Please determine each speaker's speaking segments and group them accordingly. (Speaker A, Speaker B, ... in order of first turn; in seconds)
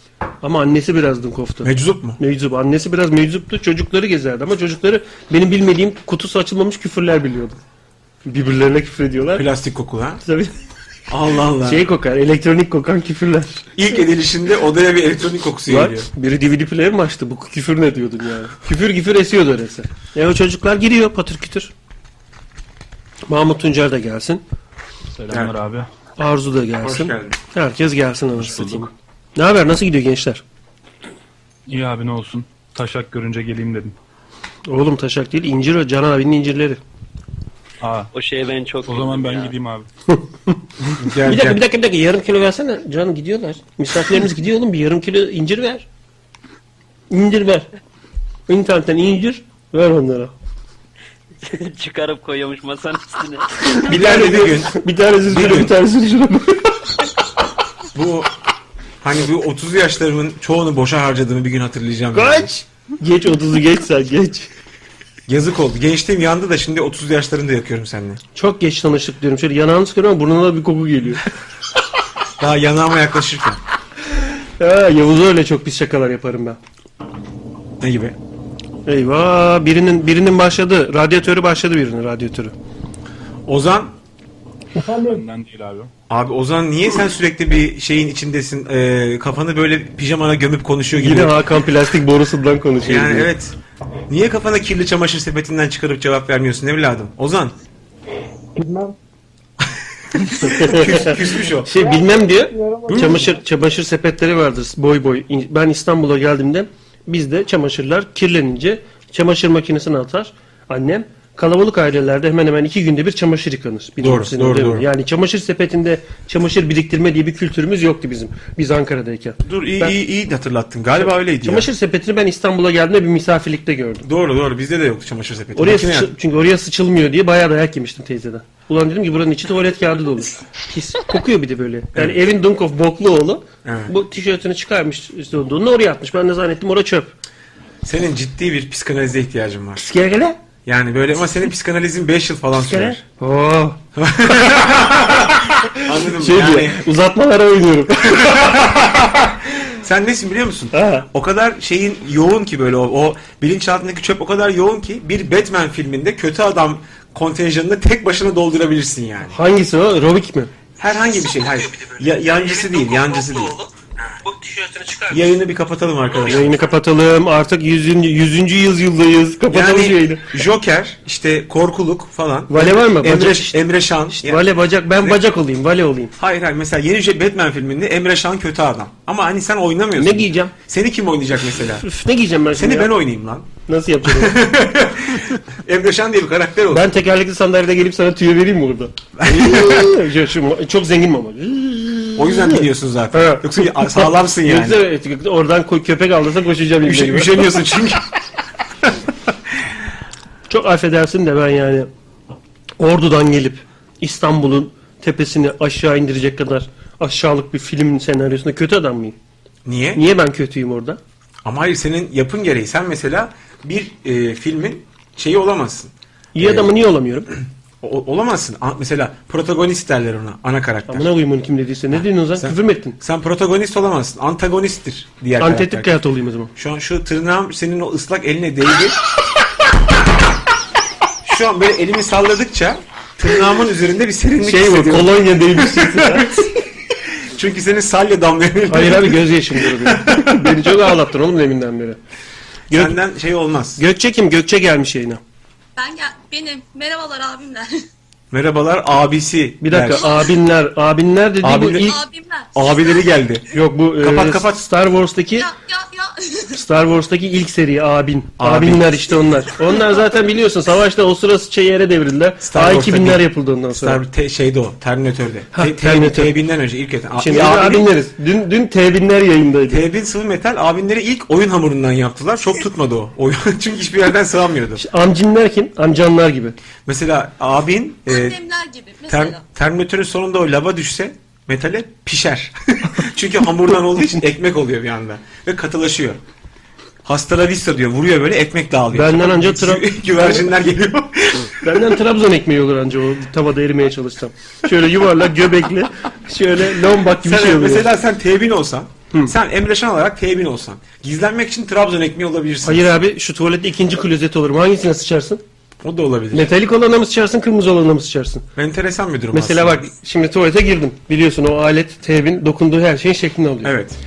Speaker A: 0.4-7.6, 8.2-9.4, 10.2-10.5, 11.6-13.7, 15.7-21.7, 23.3-24.4, 26.2-30.4, 34.7-36.8, 40.1-40.6, 41.2-45.9, 47.1-47.7, 48.5-50.3, 53.9-56.8, 62.1-64.5, 68.3-71.2, 74.6-76.6, 78.8-82.5, 90.9-93.3, 100.4-120.0, 121.0-124.0, 125.5-137.1, 139.8-140.4, 142.6-143.8, 145.2-148.6, 150.7-151.1, 159.3-160.5, 164.2-165.2, 166.2-170.3, 172.5-173.6, 174.1-176.1, 180.0-180.5, 181.4-182.9, 183.7-184.4, 186.7-197.6, 200.5-201.9, 202.8-209.2, 209.9-211.0, 216.3-217.3, 220.9-223.0, 225.4-226.5, 234.4-236.4, 238.7-242.0, 242.7-243.0, 243.8-245.2, 249.6-251.9, 253.5-255.5, 256.5-264.0, 265.5-266.3, 267.1-269.8, 274.8-276.6, 288.9-290.5, 291.6-297.9, 302.6-305.4, 306.3-308.4, 309.3-313.7
Speaker B: 1.6-2.2, 9.3-10.2, 11.1-11.8, 13.8-16.1, 26.8-27.4, 41.0-41.6, 53.9-55.7, 57.9-58.3, 59.0-62.6, 65.3-68.2, 72.4-73.6, 77.8-78.2, 83.5-83.9, 86.1-91.4, 92.8-93.5, 94.1-97.5, 99.6-101.8, 102.9-103.3, 114.0-114.8, 119.4-121.7, 124.0-126.1, 133.6-133.9, 137.8-139.9, 140.7-143.0, 143.9-146.8, 148.0-159.4, 160.8-163.7, 165.1-166.5, 169.5-174.4, 176.2-181.9, 182.5-183.5, 184.1-186.9, 189.2-190.0, 192.2-194.8, 196.8-198.1, 209.6-210.0, 211.4-216.7, 217.8-221.1, 221.9-225.9, 226.5-229.0, 231.2-236.4, 237.1-240.8, 242.7-243.8, 248.3-250.1, 251.4-251.9, 252.5-253.4, 254.0-254.6, 258.4-259.4, 262.4-267.9, 269.7-274.8, 276.9-278.4, 279.1-286.2, 287.0-291.9, 297.1-303.0, 305.8-306.5, 308.6-309.9, 313.6-314.0
Speaker C: 25.1-25.9, 28.4-28.9, 31.7-34.0, 37.8-38.1, 38.9-39.9, 85.0-85.9
Speaker D: 38.1-39.5, 51.4-53.9
Speaker E: 245.8-247.8, 249.9-250.3, 251.8-253.1, 255.4-256.6, 278.1-279.4